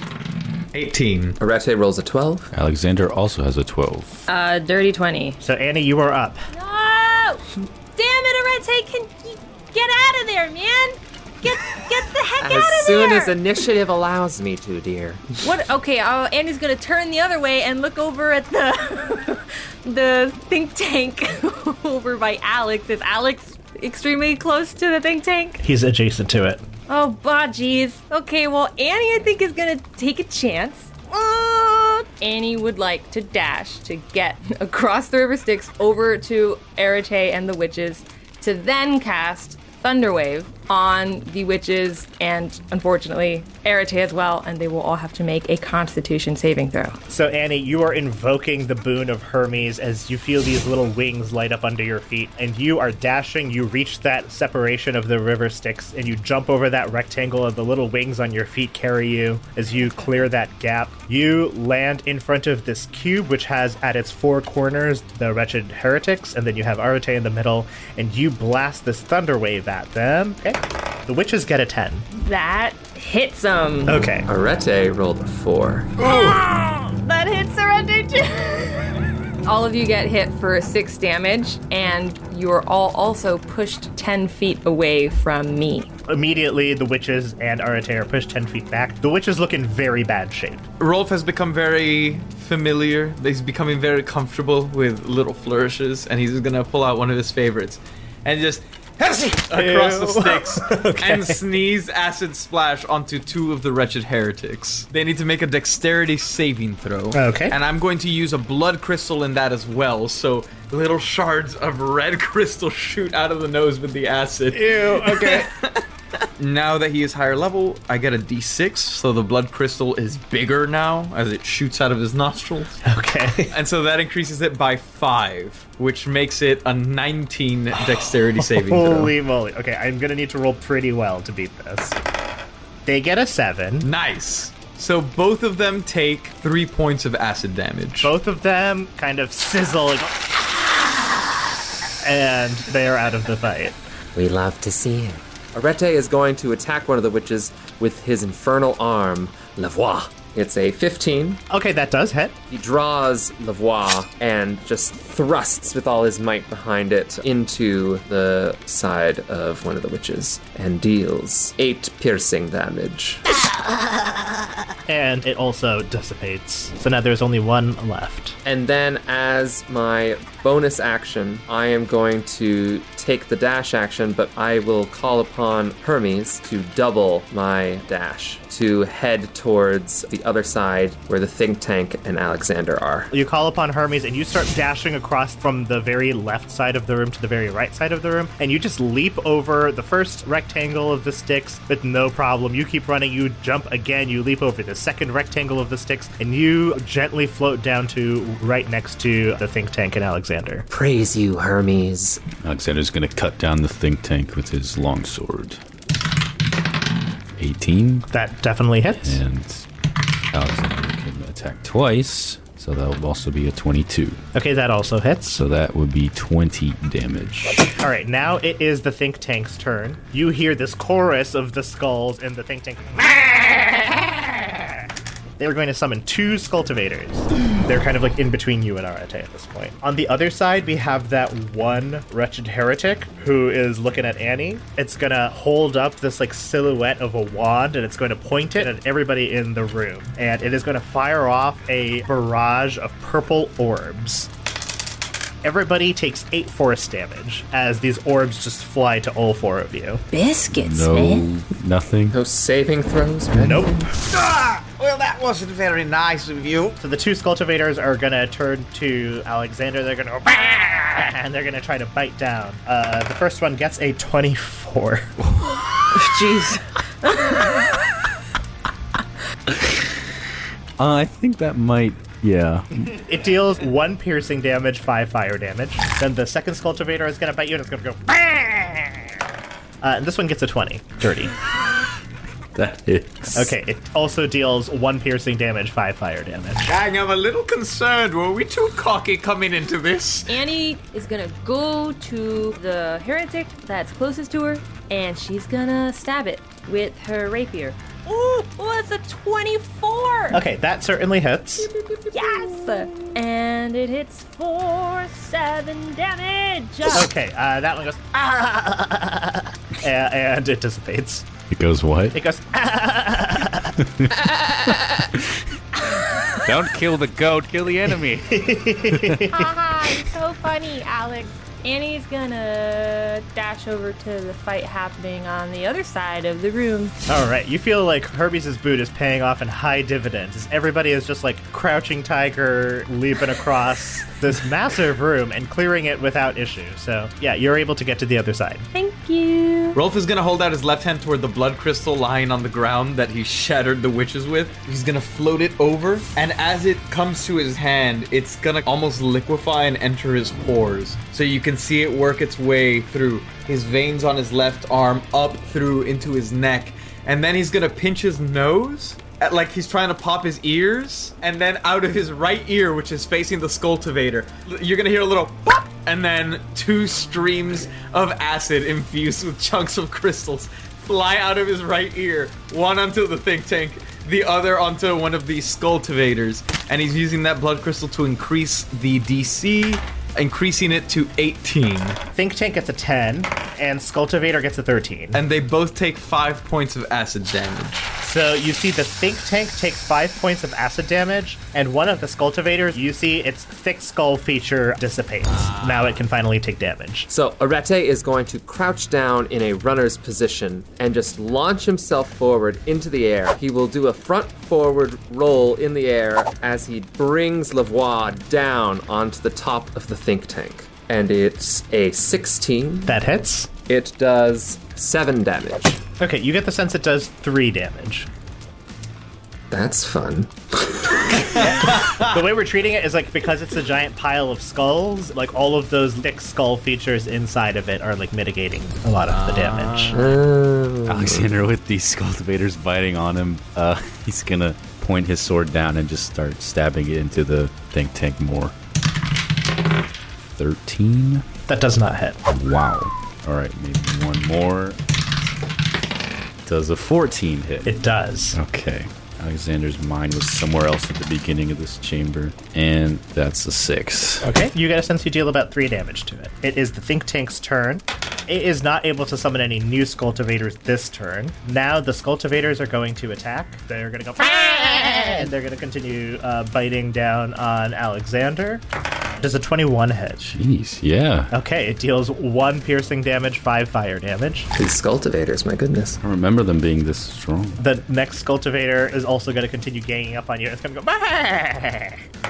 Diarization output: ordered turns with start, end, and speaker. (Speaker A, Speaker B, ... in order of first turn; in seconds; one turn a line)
Speaker A: 0.7-1.4
Speaker B: 1.4-2.5
Speaker C: 2.5-4.1
Speaker D: 4.3-5.4
Speaker E: 5.4-6.4
Speaker D: 6.5-13.4
Speaker B: 12.4-15.3
Speaker D: 15.4-25.6
Speaker E: 25.6-26.6
Speaker D: 26.9-47.0
Speaker E: 47.1-72.1
Speaker D: 72.1-74.0
Speaker E: 73.9-74.3
Speaker B: 74.3-75.9
Speaker D: 76.0-85.9
Speaker E: 86.1-90.7
Speaker A: 90.8-115.8
Speaker E: 99.5-101.4
Speaker E: 107.1-107.6
Speaker E: 114.5-115.5
Speaker A: 116.4-122.8
Speaker E: 122.9-123.5
Speaker A: 123.5-129.1
Speaker E: 127.8-132.0
Speaker E: 132.9-133.9
Speaker A: 133.8-138.1
Speaker E: 138.0-140.4
Speaker E: 142.0-143.8
Speaker B: 144.2-151.4
Speaker E: 151.5-152.4
Speaker B: 152.5-163.2
Speaker E: 164.9-168.4
Speaker B: 168.4-183.1
Speaker E: 183.1-200.7
Speaker B: 200.7-202.2
Speaker C: 202.4-205.6
Speaker C: 207.4-208.1
Speaker E: 208.1-209.2
Speaker C: 209.0-209.7
Speaker C: 210.3-214.2
Speaker E: 214.3-215.4
Speaker C: 215.3-217.8
Speaker E: 217.8-224.5
Speaker E: 225.4-244.3
Speaker E: 245.4-250.0
Speaker D: 250.1-251.3
Speaker C: 250.5-252.2
Speaker B: 252.1-253.8
Speaker E: 253.4-253.8
Speaker A: 254.1-256.8
Speaker E: 256.8-265.1
Speaker D: 265.9-267.6
Speaker C: 270.8-272.9
Speaker E: 272.9-279.0
Speaker E: 279.8-281.4
Speaker C: 282.6-283.5
Speaker E: 283.3-286.7
Speaker A: 286.7-290.3
Speaker D: 290.3-300.4
Speaker E: 300.3-301.7
Speaker D: 302.1-307.1
Speaker E: 306.9-311.3
Speaker C: 311.5-312.2
Speaker E: 312.1-313.8
Speaker C: 314.0-315.2
Speaker D: 315.9-316.4
Speaker C: 316.4-318.4
Speaker E: 318.3-319.4
Speaker D: 319.3-326.9
Speaker E: 327.1-338.7
Speaker D: 338.7-339.8
Speaker A: 339.8-382.0
Speaker E: 382.1-385.2
Speaker A: 385.1-387.9
Speaker E: 388.0-397.1
Speaker B: 397.1-413.0
Speaker E: 412.9-413.5
Speaker B: 413.7-415.8
Speaker E: 416.0-418.1
Speaker B: 419.5-421.3
Speaker A: 421.6-422.1
Speaker E: 421.6-430.0
Speaker A: 429.1-430.2
Speaker B: 429.9-431.3
Speaker C: 430.9-438.5
Speaker C: 440.4-441.2
Speaker E: 441.5-442.2
Speaker C: 442.3-444.8
Speaker C: 446.4-447.7
Speaker E: 447.6-448.4
Speaker C: 448.3-454.3
Speaker E: 454.2-468.6
Speaker E: 469.2-470.3
Speaker C: 470.3-471.3
Speaker E: 471.3-474.5
Speaker B: 474.6-476.0
Speaker C: 476.0-477.6
Speaker E: 477.6-482.0